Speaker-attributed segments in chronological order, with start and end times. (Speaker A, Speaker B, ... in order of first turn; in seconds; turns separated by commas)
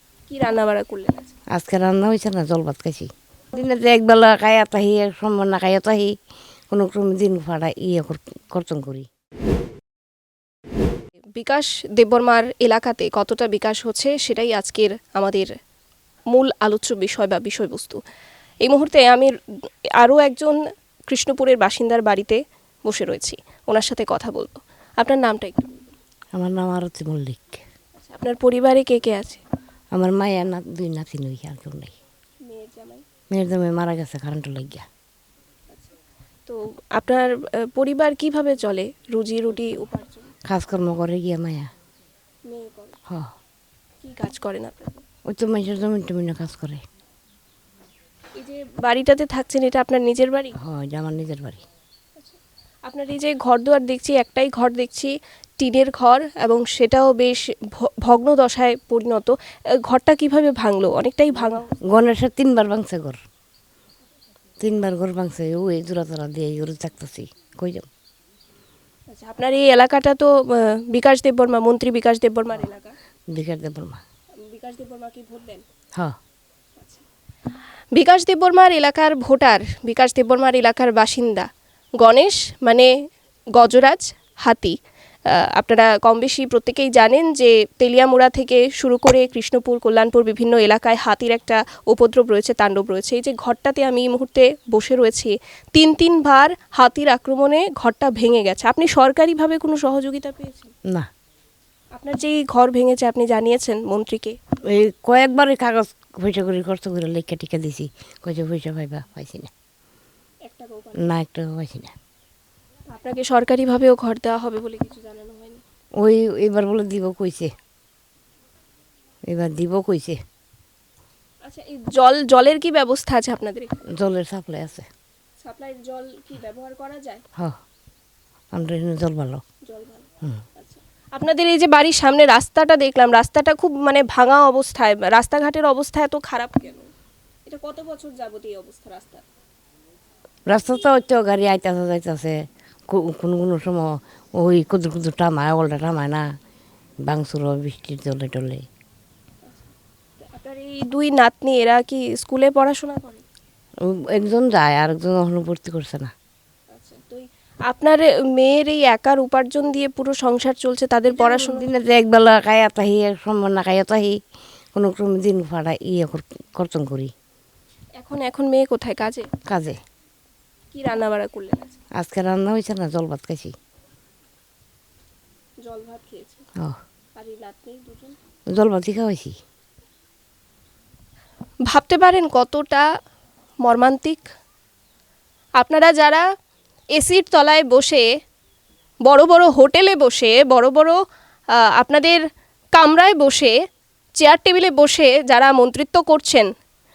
Speaker A: 0.3-1.3, Speaker B: 1.5-6.1, Speaker B: 6.7-9.1, Speaker A: 11.3-15.5, Speaker A: 16.3-18.0, Speaker A: 18.6-19.3, Speaker A: 20.0-20.6, Speaker A: 21.1-25.9, Speaker B: 26.3-27.6, Speaker A: 28.0-29.4, Speaker B: 29.9-31.9, Speaker A: 32.5-33.0, Speaker B: 33.3-34.9, Speaker A: 36.5-40.3, Speaker B: 40.5-41.7, Speaker A: 42.5-43.0, Speaker A: 44.0-45.0, Speaker B: 45.2-46.8, Speaker A: 48.4-50.5, Speaker B: 50.6-51.6, Speaker A: 52.2-61.7, Speaker B: 61.9-63.2, Speaker B: 64.6-67.9, Speaker A: 69.1-72.9, Speaker B: 73.3-74.0, Speaker A: 74.4-75.6, Speaker A: 76.8-77.0, Speaker A: 77.9-81.5, Speaker A: 82.0-82.9, Speaker A: 83.6-84.8, Speaker A: 85.3-100.7, Speaker A: 102.0-104.4, Speaker B: 104.7-109.5, Speaker A: 110.5-111.2, Speaker B: 111.0-111.9, Speaker A: 112.9-115.6, Speaker B: 116.0-117.5, Speaker B: 119.3-120.2, Speaker A: 121.4-123.7, Speaker B: 123.9-124.9, Speaker A: 125.4-127.2, Speaker B: 128.5-129.4, Speaker A: 129.7-136.9, Speaker A: 137.4-139.2, Speaker B: 140.5-146.3, Speaker B: 147.0-148.7, Speaker A: 150.2-153.2, Speaker B: 153.8-156.1, Speaker A: 156.7-161.7, Speaker B: 161.1-164.2, Speaker B: 164.7-167.1, Speaker A: 168.0-169.3, Speaker B: 169.5-169.8, Speaker A: 170.7-171.8, Speaker B: 172.0-173.5, Speaker A: 175.6-176.4, Speaker A: 177.2-178.2, Speaker B: 178.5-179.3, Speaker A: 181.7-182.8, Speaker A: 183.6-184.2, Speaker A: 185.6-186.2, Speaker A: 186.9-188.1, Speaker A: 189.1-190.9, Speaker A: 191.8-192.2, Speaker A: 192.8-193.5, Speaker A: 194.2-196.5